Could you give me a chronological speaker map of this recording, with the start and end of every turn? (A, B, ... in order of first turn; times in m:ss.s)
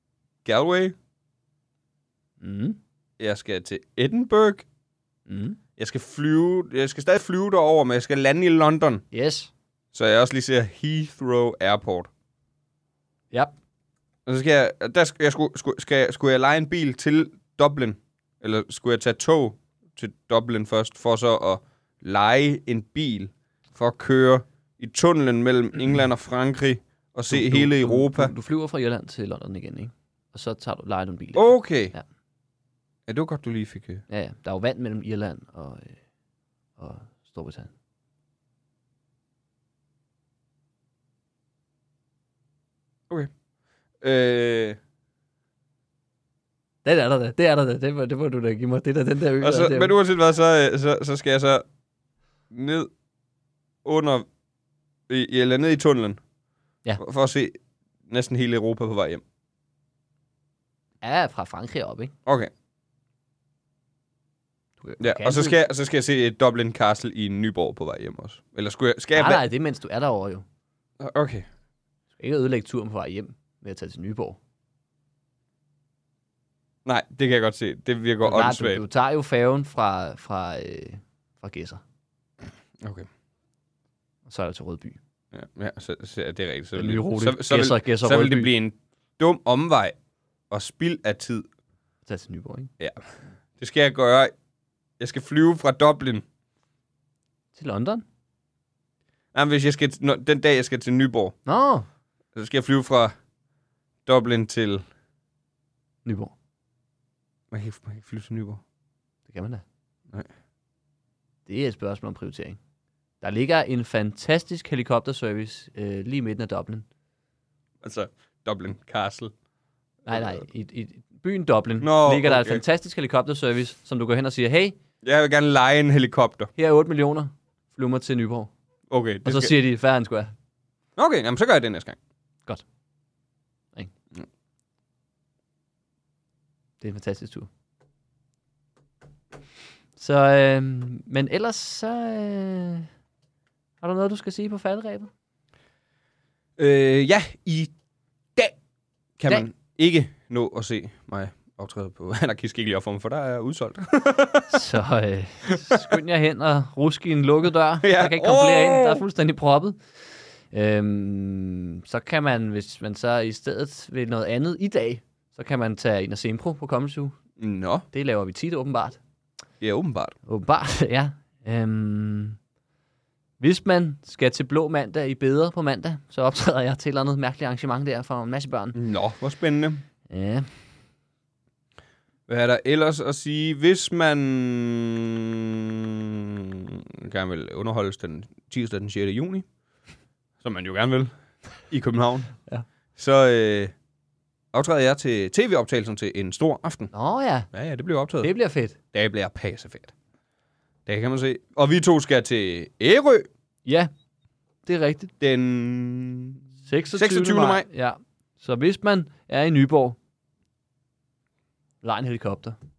0:00.4-0:01.0 A
0:02.4-0:02.8 B
0:03.2-0:04.6 A
0:05.3-0:05.6 B
0:05.8-0:09.0 A
0:09.1-0:09.5 B
0:09.9-0:12.1 A
0:14.2-0:28.3 A
0:27.3-0:32.0 B
0:31.3-0:31.9 A
0:33.1-0:34.0 A
0:34.1-0:36.0 B
0:36.8-0:37.7 B
0:44.0-0:44.8 A
0:46.8-0:49.9 B
0:49.4-0:51.6 A
0:52.5-0:52.9 A
0:53.8-0:54.3 A
0:55.1-0:56.2 A
0:57.0-0:59.2 A
1:01.0-1:02.1 B
1:02.2-1:02.5 A
1:04.8-1:05.6 B
1:05.0-1:09.4 A
1:09.2-1:10.4 B
1:11.0-1:11.5 A
1:12.2-1:14.4 B
1:16.8-1:18.8 A
1:18.2-1:21.8 B
1:22.8-1:23.1 A
1:24.2-1:25.0 B
1:25.3-1:30.0 A
1:26.8-1:28.5 B
1:30.5-1:31.5 A
1:32.0-1:32.7 B
1:32.8-1:33.0 A
1:33.6-1:34.3 A
1:35.0-1:36.2 A
1:37.5-1:38.0 B
1:39.3-1:41.4 A
1:41.4-1:41.8 B
1:42.3-1:43.1 A
1:44.0-1:44.8 A
1:46.0-1:46.3 B
1:47.5-1:48.6 A
1:49.3-1:49.6 B
1:51.4-1:52.6 B
1:53.2-1:56.8 B
1:57.8-1:59.3 A
2:00.0-2:04.8 B
2:00.1-2:00.4 A
2:01.8-2:02.6 A
2:05.0-2:06.5 A
2:06.6-2:08.5 B
2:08.9-2:09.5 A
2:09.2-2:10.3 B
2:11.0-2:12.0 A
2:16.8-2:17.5 B
2:20.0-2:22.8 B
2:23.8-2:25.1 B
2:26.6-2:27.7 A
2:29.2-2:34.7 A
2:34.5-2:39.8 B
2:37.8-2:39.0 A
2:40.5-2:47.2 B
2:47.4-2:47.8 A
2:47.9-2:49.0 B
2:49.6-2:50.2 A
2:50.2-2:52.4 B
2:53.4-2:58.8 B
2:58.7-2:59.8 A
3:00.1-3:00.5 B
3:02.3-3:09.4 A
3:10.4-3:11.1 A
3:11.6-3:12.4 A
3:13.0-3:13.7 A
3:14.5-3:16.9 A
3:16.9-3:17.5 B
3:17.5-3:18.3 A
3:18.2-3:18.8 B
3:18.9-3:19.9 A
3:20.8-3:23.3 A
3:23.6-3:23.9 B
3:24.6-3:25.1 B
3:25.2-3:26.4 A
3:26.6-3:30.0 B
3:26.9-3:27.6 A
3:31.8-3:32.6 B